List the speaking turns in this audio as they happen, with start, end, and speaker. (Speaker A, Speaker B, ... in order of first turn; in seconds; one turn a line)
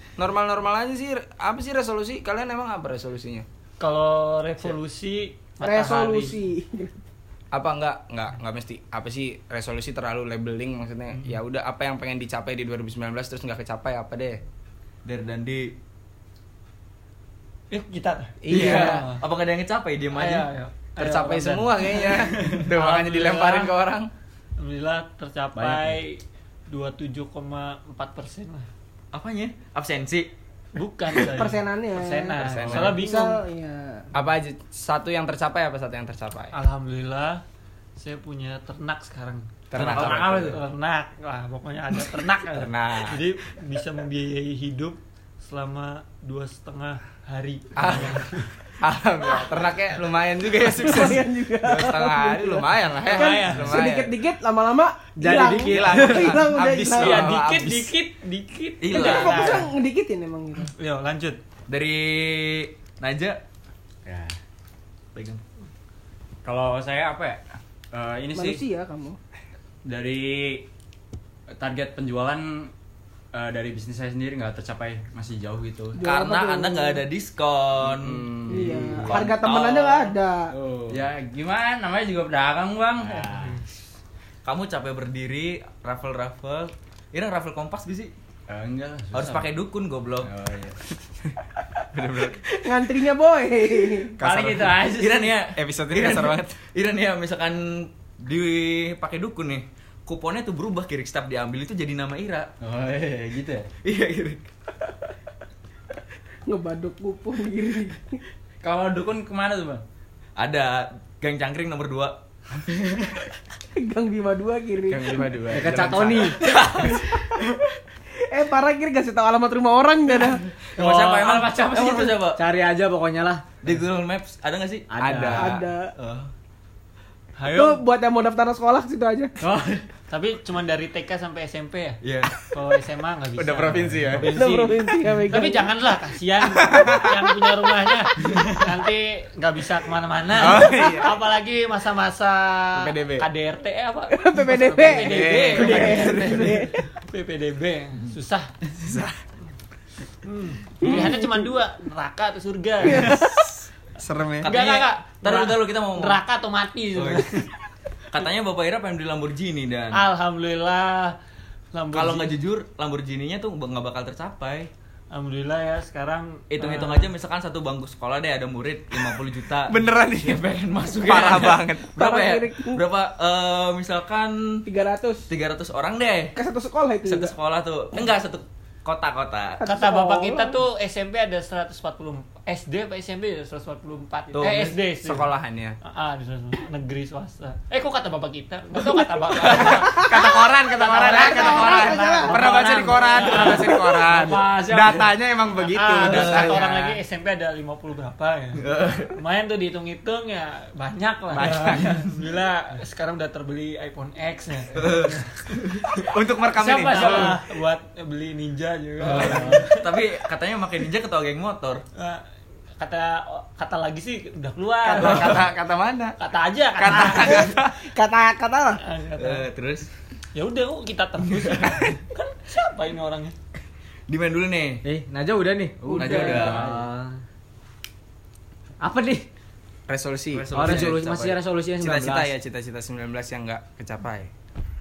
Speaker A: 0.2-3.5
Speaker B: 3.8-6.4
Speaker C: 5.6-7.0
Speaker A: 7.5-14.4
Speaker D: 15.1-15.7
Speaker B: 17.7-19.2
Speaker A: 18.5-18.9
Speaker D: 18.5-20.5
Speaker C: 18.5-19.1
Speaker B: 20.1-23.8
Speaker A: 21.0-24.1
Speaker B: 24.6-28.7
Speaker E: 25.7-25.9
Speaker D: 29.1-30.3
Speaker B: 30.7-33.4
Speaker D: 31.1-31.4
Speaker C: 31.2-34.1
Speaker A: 32.4-33.0
Speaker A: 34.1-36.5
Speaker B: 36.5-37.4
Speaker B: 38.0-48.5
Speaker A: 39.7-40.6
Speaker D: 39.8-40.6
Speaker A: 42.5-43.2
Speaker A: 47.8-48.3
Speaker A: 48.8-54.1
Speaker C: 50.6-57.3
Speaker B: 53.1-53.9
Speaker F: 55.2-56.3
Speaker A: 55.5-57.9
Speaker B: 56.9-59.7
Speaker D: 58.8-59.7
Speaker C: 58.9-60.7
Speaker B: 60.8-61.4
Speaker D: 61.7-63.4
Speaker E: 64.1-64.3
Speaker D: 65.2-65.4
Speaker E: 66.4-68.6
Speaker C: 68.3-69.2
Speaker E: 69.8-70.7
Speaker E: 71.5-72.7
Speaker E: 73.3-76.0
Speaker C: 76.0-77.0
Speaker D: 76.0-78.3
Speaker A: 77.8-78.9
Speaker C: 78.5-80.5
Speaker E: 78.5-79.2
Speaker D: 79.0-80.2
Speaker E: 80.5-83.6
Speaker D: 84.4-88.1
Speaker E: 88.5-89.5
Speaker D: 89.1-90.3
Speaker E: 90.2-90.8
Speaker D: 91.9-92.4
Speaker C: 92.5-94.2
Speaker A: 94.2-94.9
Speaker D: 94.8-102.5
Speaker A: 95.5-96.6
Speaker E: 102.6-103.7
Speaker D: 103.8-104.4
Speaker C: 106.5-108.2
Speaker E: 108.6-109.8
Speaker D: 110.4-112.2
Speaker C: 113.8-115.4
Speaker A: 114.9-116.4
Speaker F: 115.5-116.4
Speaker D: 116.4-117.1
Speaker C: 116.5-117.5
Speaker C: 118.3-120.4
Speaker D: 120.1-122.4
Speaker B: 120.8-121.8
Speaker F: 122.4-123.4
Speaker D: 123.6-124.9
Speaker F: 124.9-125.5
Speaker A: 125.0-125.7
Speaker C: 125.4-125.9
Speaker D: 126.0-126.3
Speaker B: 127.4-127.8
Speaker C: 127.5-129.4
Speaker F: 129.4-129.8
Speaker B: 130.1-132.0
Speaker D: 132.0-132.3
Speaker B: 132.5-148.5
Speaker A: 133.4-134.3
Speaker C: 134.3-135.7
Speaker A: 136.6-137.2
Speaker A: 140.4-141.1
Speaker A: 142.8-143.3
Speaker C: 144.1-146.8
Speaker A: 144.9-146.2
Speaker A: 148.8-149.2
Speaker B: 150.2-153.2
Speaker C: 150.8-151.4
Speaker C: 152.8-153.6
Speaker A: 153.0-153.3
Speaker A: 154.0-154.5
Speaker D: 154.4-156.2
Speaker B: 154.4-157.5
Speaker D: 156.9-157.2
Speaker D: 158.1-160.0
Speaker B: 159.9-161.2
Speaker B: 161.7-162.4
Speaker D: 161.9-164.7
Speaker B: 165.1-167.1
Speaker D: 166.5-174.6
Speaker A: 169.7-171.9
Speaker C: 172.0-172.8
Speaker C: 174.7-175.3
Speaker D: 175.3-176.4
Speaker C: 176.4-177.3
Speaker D: 177.1-179.6
Speaker C: 179.6-180.6
Speaker B: 179.6-185.3
Speaker D: 184.3-184.8
Speaker A: 185.0-185.8
Speaker B: 185.8-195.0
Speaker D: 189.4-189.7
Speaker A: 189.5-197.0
Speaker C: 189.6-190.2
Speaker C: 191.0-192.5
Speaker B: 195.6-205.3
Speaker D: 196.0-196.6
Speaker D: 198.6-199.2
Speaker A: 201.3-202.0
Speaker D: 201.5-202.1
Speaker D: 204.8-205.9
Speaker B: 206.0-209.9
Speaker A: 206.1-207.4
Speaker D: 209.1-211.8
Speaker B: 212.0-212.2
Speaker B: 212.8-215.5
Speaker A: 214.9-216.2
Speaker B: 216.2-217.6
Speaker A: 216.8-217.8
Speaker C: 217.2-218.8
Speaker B: 218.8-219.5
Speaker D: 219.2-219.9
Speaker B: 220.3-223.4
Speaker D: 221.3-221.9
Speaker D: 224.1-224.8
Speaker F: 224.8-227.2
Speaker D: 225.9-226.7
Speaker F: 228.8-229.3
Speaker A: 229.9-231.0
Speaker D: 230.3-231.4
Speaker F: 230.5-232.3
Speaker A: 231.8-234.3